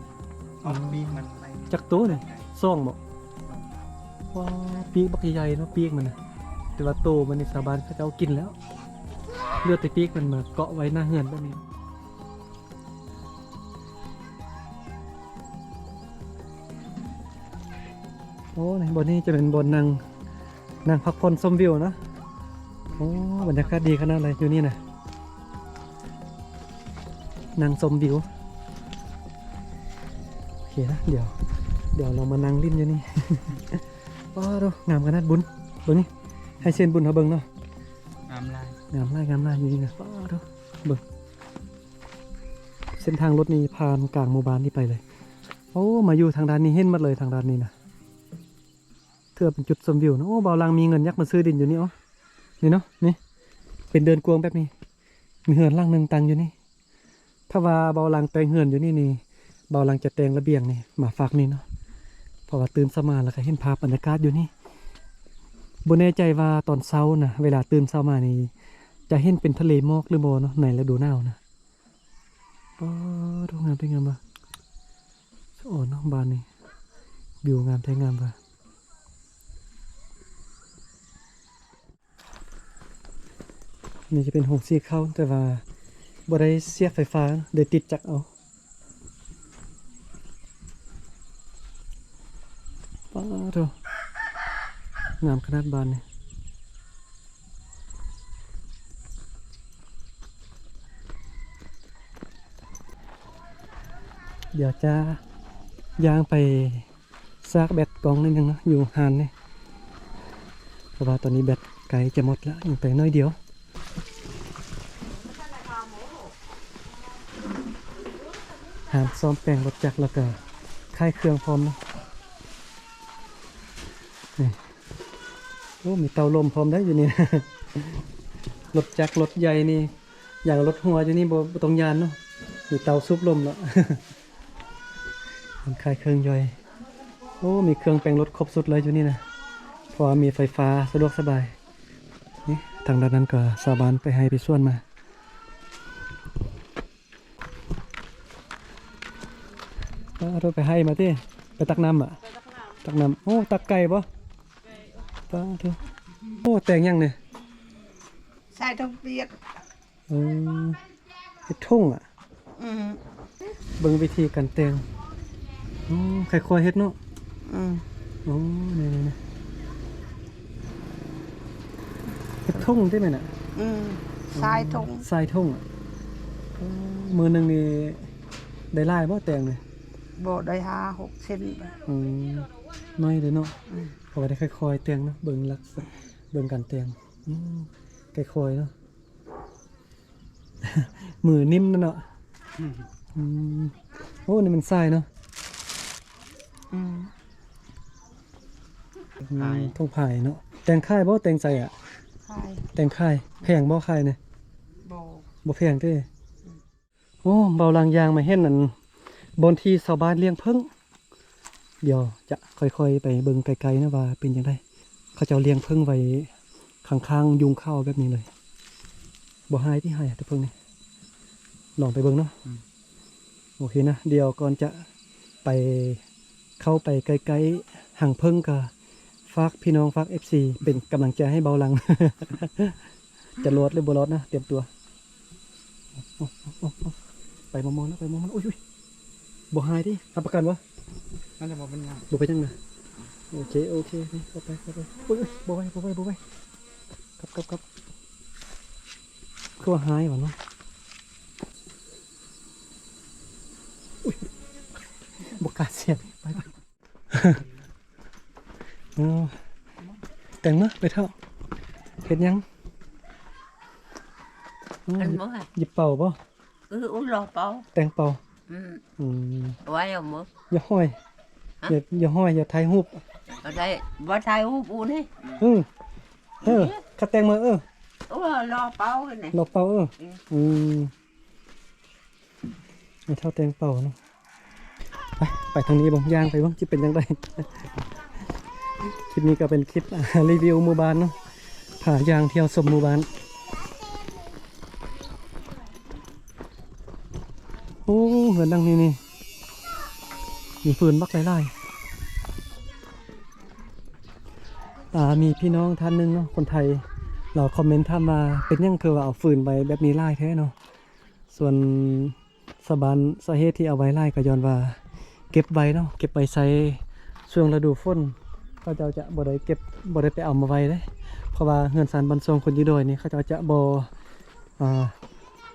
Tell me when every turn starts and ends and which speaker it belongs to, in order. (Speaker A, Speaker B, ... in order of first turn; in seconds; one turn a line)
Speaker A: 0.6-1.7
Speaker B: 0.6-3.0
Speaker B: 4.3-6.2
Speaker B: 6.8-8.6
Speaker B: 9.6-11.6
Speaker B: 18.5-20.0
Speaker B: 20.8-22.0
Speaker B: 22.9-24.8
Speaker B: 27.6-28.3
Speaker B: 30.6-31.3
Speaker B: 31.9-33.8
Speaker B: 34.3-36.1
Speaker B: 36.6-37.5
Speaker A: 38.3-38.8
Speaker B: 38.9-41.0
Speaker B: 42.9-45.0
Speaker B: 45.7-47.7
Speaker B: 49.4-51.9
Speaker B: 52.6-53.2
Speaker B: 53.9-54.7
Speaker B: 55.5-56.5
Speaker B: 57.5-61.6
Speaker B: 62.5-64.5
Speaker B: 65.8-68.5
Speaker B: 69.1-71.4
Speaker B: 72.8-74.2
Speaker B: 75.6-76.5
Speaker B: 77.4-78.3
Speaker B: 84.1-85.6
Speaker B: 86.3-88.3
Speaker B: 93.1-93.7
Speaker B: 95.2-96.0
Speaker B: 104.5-105.2
Speaker B: 106.0-106.9
Speaker B: 107.4-109.3
Speaker B: 111.0-113.3
Speaker B: 118.9-120.4
Speaker B: 120.9-121.8
Speaker B: 125.8-128.0
Speaker B: 128.7-129.9
Speaker B: 130.4-132.2
Speaker B: 132.7-134.0
Speaker B: 135.6-136.6
Speaker B: 137.4-139.2
Speaker B: 139.9-141.6
Speaker B: 142.4-144.8
Speaker B: 150.2-152.2
Speaker B: 152.8-154.1
Speaker B: 155.3-155.8
Speaker B: 156.4-157.2
Speaker C: 158.5-159.3
Speaker B: 160.1-160.8
Speaker B: 161.5-162.0
Speaker C: 162.6-163.0
Speaker B: 163.8-164.8
Speaker B: 165.9-166.9
Speaker C: 167.4-167.8
Speaker B: 168.2-169.2
Speaker B: 172.4-173.3
Speaker C: 173.5-175.0
Speaker B: 174.3-175.6
Speaker B: 176.6-178.1
Speaker B: 178.7-179.6
Speaker C: 180.2-181.8
Speaker B: 181.9-183.5
Speaker B: 184.1-188.7
Speaker B: 190.6-192.0
Speaker B: 193.1-193.7
Speaker B: 194.2-195.1
Speaker C: 196.7-197.1
Speaker B: 199.2-201.7
Speaker C: 202.2-202.7
Speaker B: 202.7-204.2
Speaker C: 204.8-205.2
Speaker B: 205.4-206.1
Speaker B: 207.2-208.7
Speaker B: 209.4-210.7
Speaker B: 211.8-214.6
Speaker B: 215.1-216.3
Speaker B: 216.8-218.3
Speaker B: 219.5-220.5
Speaker B: 221.8-222.3
Speaker B: 223.6-224.8
Speaker B: 225.4-226.0
Speaker B: 226.6-228.7
Speaker B: 229.3-232.8
Speaker B: 233.4-234.7
Speaker B: 236.0-236.9
Speaker B: 237.5-238.6
Speaker B: 239.5-240.6
Speaker A: 241.4-242.0
Speaker B: 242.1-242.6
Speaker B: 243.3-246.2
Speaker B: 247.2-247.6
Speaker B: 249.6-250.3
Speaker B: 255.2-256.5
Speaker B: 257.1-257.4
Speaker B: 258.9-259.4
Speaker B: 260.4-261.1
Speaker B: 262.0-262.4
Speaker B: 264.9-266.2
Speaker D: 265.0-265.5
Speaker D: 266.7-267.6
Speaker B: 267.7-268.2
Speaker D: 268.5-268.8
Speaker B: 269.0-269.6
Speaker D: 269.6-270.3
Speaker B: 270.5-270.9
Speaker B: 271.6-273.0
Speaker D: 273.4-275.1
Speaker B: 275.4-275.7
Speaker B: 276.4-277.6
Speaker D: 276.4-276.8
Speaker D: 278.1-279.4
Speaker B: 279.3-280.9
Speaker B: 283.1-283.9
Speaker B: 285.2-287.4
Speaker B: 288.8-291.1
Speaker B: 291.8-293.1
Speaker B: 297.9-299.0
Speaker B: 300.6-301.5
Speaker B: 304.9-310.5
Speaker B: 311.3-314.8
Speaker B: 315.3-323.9
Speaker B: 324.6-324.9